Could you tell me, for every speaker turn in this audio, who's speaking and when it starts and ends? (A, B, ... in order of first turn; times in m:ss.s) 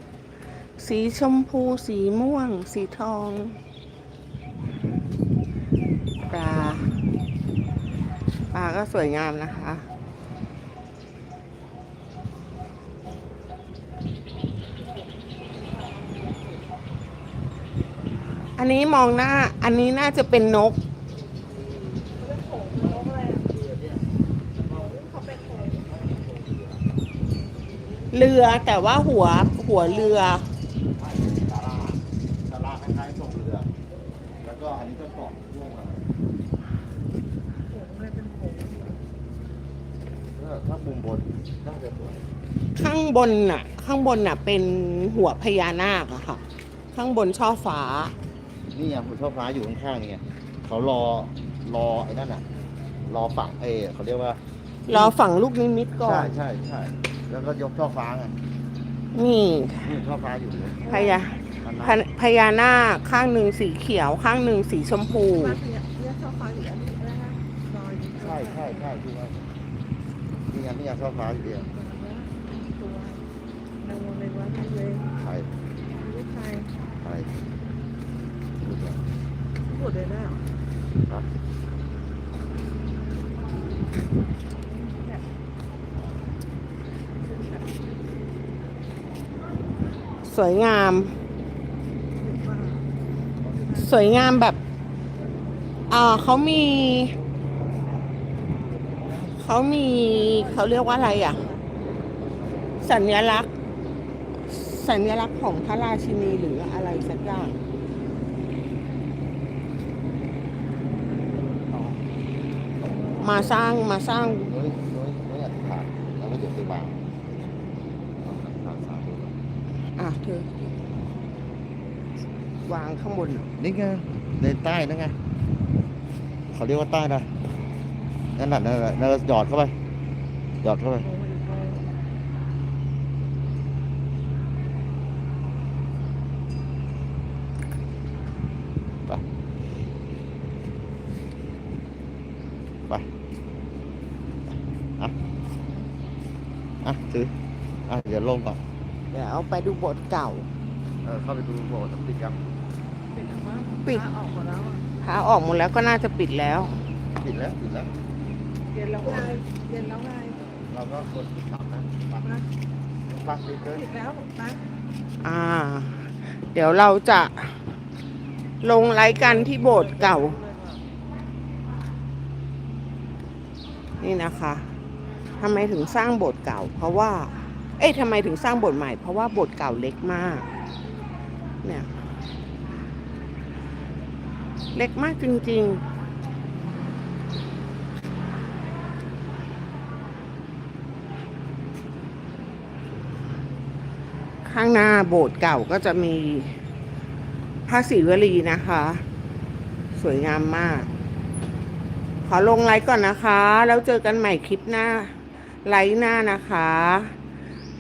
0:00.8-0:03.6 A
0:06.3-0:06.9 A
0:08.5-0:09.9 A
0:18.6-0:20.8 A
0:22.2-0:23.5 B
0:23.7-0:24.0 C
0:24.6-0:25.9 B
0:26.0-0:26.7 C
0:28.1-0:30.5 A
0:31.0-0:33.7 C
0:34.4-0:36.1 C
0:37.7-0:39.0 B
0:40.4-0:42.2 C
0:42.8-0:48.1 A
0:48.7-0:52.4 C
0:53.1-0:55.2 C
0:54.9-0:56.3 A
0:56.0-0:58.4 C
0:59.1-0:59.9 A
0:59.8-1:00.9 C
1:00.8-1:01.2 B
1:00.9-1:05.6 A
1:01.6-1:02.0 C
1:05.3-1:08.9 B
1:08.2-1:09.5 C
1:10.5-1:11.7 C
1:11.6-1:13.2 B
1:13.8-1:15.1 B
1:15.1-1:15.5 C
1:15.9-1:16.7 B
1:17.0-1:17.4 C
1:18.6-1:19.1 C
1:19.6-1:20.4 B
1:24.6-1:25.2 B
1:27.2-1:27.8 B
1:30.2-1:31.1 A
1:32.2-1:32.9 B
1:33.5-1:33.9 B
1:33.8-1:34.6 A
1:35.9-1:37.2 A
1:39.4-1:41.4 A
1:40.0-1:41.8 B
1:42.8-1:43.5 A
1:44.5-1:47.6 A
1:53.2-1:54.5 A
1:54.4-1:57.0 C
1:58.2-1:59.4 C
2:00.0-2:00.5 A
2:02.7-2:03.5 A
2:03.6-2:05.2 C
2:06.5-2:07.3 C
2:08.4-2:09.7 C
2:10.6-2:11.1 C
2:11.0-2:11.9 B
2:26.8-2:27.3 C
2:27.9-2:28.6 C
2:29.1-2:30.5 A
2:31.0-2:32.4 C
2:33.1-2:34.8 B
2:35.0-2:36.8 A
2:37.1-2:37.9 C
2:38.7-2:40.4 B
2:39.0-2:39.4 C
2:40.7-2:42.4 C
2:43.1-2:43.9 C
2:43.7-2:44.6 B
2:45.2-2:47.6 A
2:48.6-2:50.4 A
2:49.3-2:50.8 B
2:54.0-2:54.7 A
2:55.4-3:00.5 A
3:01.6-3:01.9 A
3:04.7-3:05.8 A
3:14.4-3:16.6 A
3:17.7-3:19.0 A
3:19.9-3:20.9 A
3:22.2-3:27.2 A